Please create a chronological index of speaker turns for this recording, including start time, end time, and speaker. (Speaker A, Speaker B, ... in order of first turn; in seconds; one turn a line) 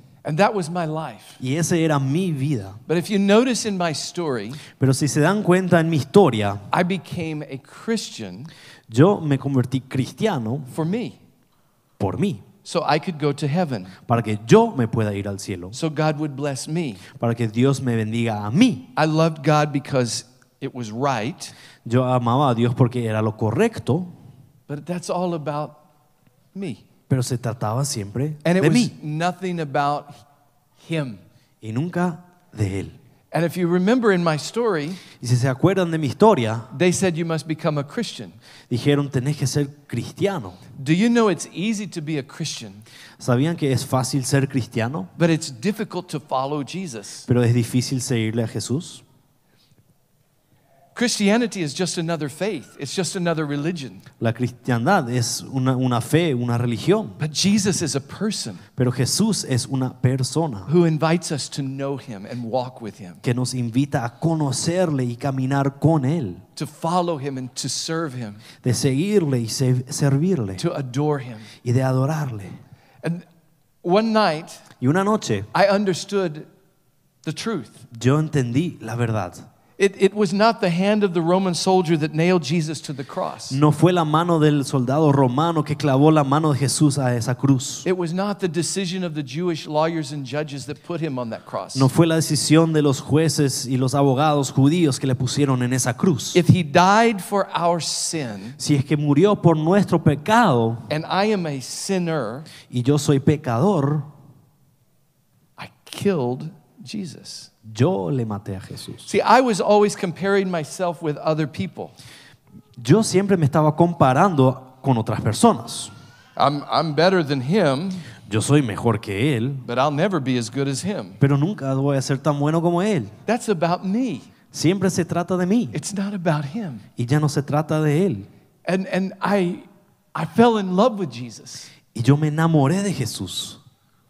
Speaker A: 0.2-1.4
Speaker B: 1.4-2.8
Speaker A: 2.9-4.6
Speaker B: 4.8-6.7
Speaker A: 6.7-8.5
Speaker B: 8.9-10.7
Speaker A: 10.7-11.2
Speaker B: 12.0-12.4
Speaker A: 12.6-14.0
Speaker B: 14.1-15.8
Speaker A: 15.7-17.0
Speaker B: 17.2-18.9
Speaker A: 19.0-21.5
Speaker B: 21.9-24.1
Speaker A: 24.7-25.8
Speaker A: 26.5-26.8
Speaker B: 27.1-28.9
Speaker A: 28.4-30.2
Speaker A: 30.8-31.2
Speaker B: 31.6-33.0
Speaker A: 33.3-35.0
Speaker B: 35.2-36.7
Speaker A: 36.7-38.4
Speaker B: 38.7-40.6
Speaker A: 40.8-42.8
Speaker B: 43.2-45.1
Speaker A: 45.2-47.3
Speaker B: 47.3-49.0
Speaker A: 51.0-54.0
Speaker B: 54.2-57.2
Speaker A: 57.2-58.6
Speaker B: 58.8-60.7
Speaker A: 60.7-63.2
Speaker B: 63.2-66.4
Speaker A: 66.6-68.4
Speaker B: 68.6-70.6
Speaker A: 70.6-71.5
Speaker B: 71.6-72.5
Speaker A: 73.8-74.6
Speaker B: 74.8-75.5
Speaker A: 75.5-76.5
Speaker A: 77.2-77.8
Speaker B: 77.9-79.5
Speaker A: 79.8-83.6
Speaker B: 83.5-87.9
Speaker A: 87.8-91.9
Speaker B: 91.8-96.4
Speaker A: 96.3-98.6
Speaker B: 98.6-100.9
Speaker A: 100.9-102.5
Speaker B: 102.7-104.1
Speaker A: 105.6-107.5
Speaker B: 107.6-109.1
Speaker A: 109.1-112.0
Speaker B: 112.8-115.9
Speaker A: 116.4-118.1
Speaker B: 118.2-119.6
Speaker A: 119.6-121.2
Speaker B: 121.2-123.1
Speaker A: 123.2-124.3
Speaker B: 124.5-125.8
Speaker A: 125.7-126.8
Speaker B: 127.0-128.3
Speaker A: 128.6-131.7
Speaker B: 131.9-133.6